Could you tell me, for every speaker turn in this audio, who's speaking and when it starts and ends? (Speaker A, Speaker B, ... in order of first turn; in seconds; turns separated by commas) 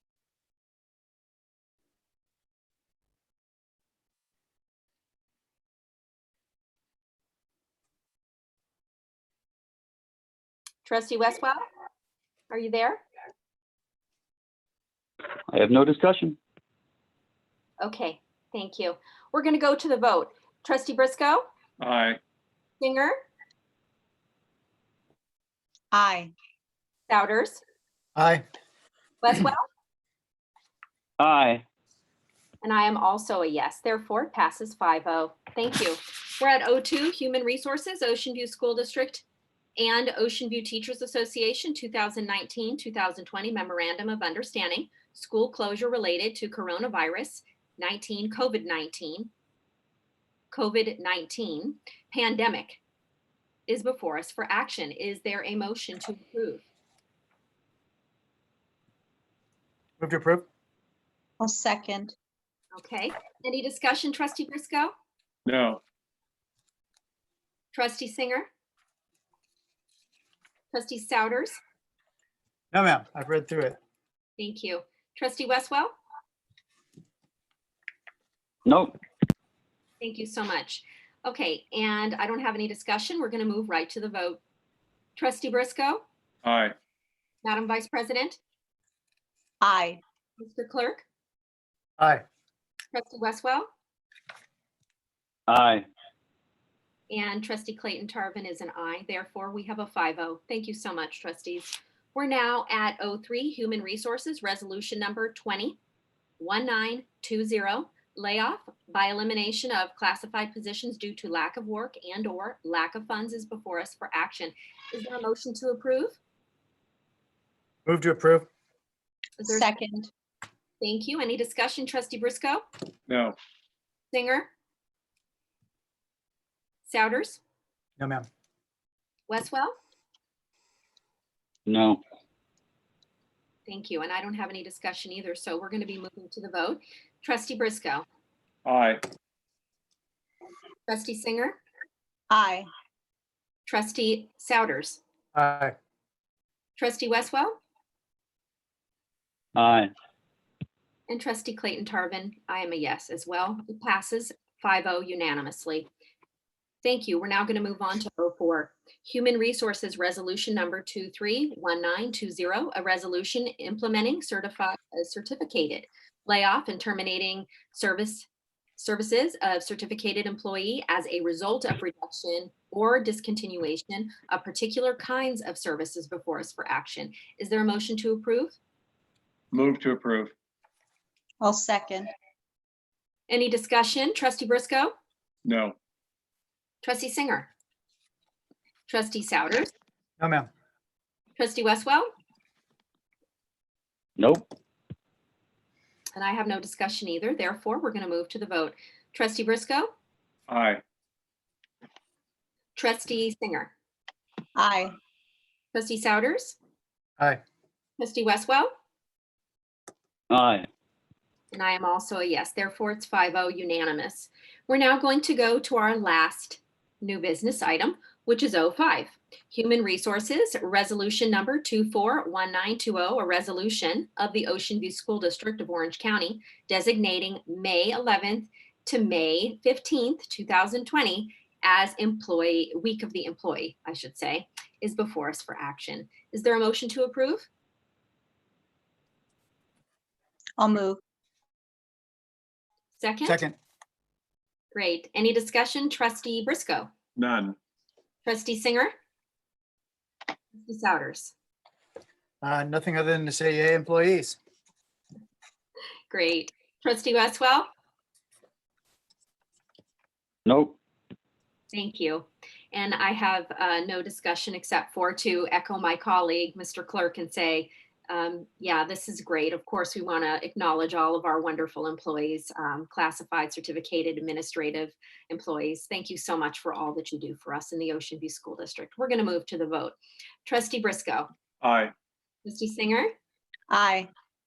Speaker A: 10.8-11.6, Speaker A: 12.5-13.0, Speaker B: 15.5-16.4, Speaker A: 17.8-21.4, Speaker C: 21.8-22.2, Speaker A: 22.8-23.2, Speaker D: 25.9-26.3, Speaker A: 27.1-27.6, Speaker E: 28.1-28.4, Speaker A: 29.2-29.6, Speaker B: 31.2-31.6, Speaker A: 32.6-39.2, Speaker A: 39.8-49.3, Speaker A: 50.5-52.8, Speaker A: 53.7-56.6, Speaker E: 60.0-60.5, Speaker D: 61.4-62.1, Speaker A: 62.7-64.9, Speaker C: 65.5-65.8, Speaker A: 67.7-68.5, Speaker A: 70.7-71.6, Speaker E: 72.7-73.8, Speaker A: 74.4-75.9, Speaker B: 78.7-78.9, Speaker A: 80.0-84.4, Speaker A: 85.2-86.0, Speaker C: 86.4-86.7, Speaker A: 87.4-88.4, Speaker D: 89.6-90.0, Speaker A: 90.4-91.0, Speaker A: 92.9-93.7, Speaker B: 95.5-95.8, Speaker A: 97.1-105.8, Speaker A: 106.4-116.2, Speaker E: 117.8-118.5, Speaker A: 119.4-119.6, Speaker D: 119.5-120.1, Speaker A: 120.8-122.6, Speaker C: 123.1-123.3, Speaker A: 124.1-124.5, Speaker A: 126.9-127.4, Speaker E: 128.0-128.3, Speaker A: 129.3-129.8, Speaker B: 131.7-132.0, Speaker A: 133.7-138.0, Speaker C: 138.7-139.0, Speaker A: 140.9-141.6, Speaker D: 142.3-142.7, Speaker A: 143.7-145.0, Speaker E: 145.3-145.7, Speaker A: 146.8-147.6, Speaker B: 149.6-149.9, Speaker A: 151.1-155.9, Speaker A: 156.8-178.6, Speaker C: 179.5-180.3, Speaker D: 181.4-182.1, Speaker A: 183.3-184.9, Speaker C: 185.4-185.8, Speaker A: 186.8-187.5, Speaker A: 188.9-189.7, Speaker E: 190.2-190.5, Speaker A: 191.3-192.1, Speaker B: 194.2-194.4, Speaker A: 196.1-199.9, Speaker C: 200.5-200.8, Speaker A: 202.7-203.7, Speaker D: 204.6-204.9, Speaker A: 205.7-206.6, Speaker A: 208.0-208.7, Speaker B: 210.3-210.7, Speaker A: 211.5-237.5, Speaker D: 240.6-241.0, Speaker A: 242.9-243.4, Speaker E: 243.2-243.6, Speaker A: 244.7-246.9, Speaker C: 247.2-247.6, Speaker A: 248.2-248.9, Speaker A: 250.5-251.3, Speaker E: 252.4-254.4, Speaker A: 256.1-257.7, Speaker B: 260.4-260.8, Speaker A: 261.7-281.3, Speaker C: 281.6-281.9, Speaker A: 282.4-283.1, Speaker D: 283.7-284.1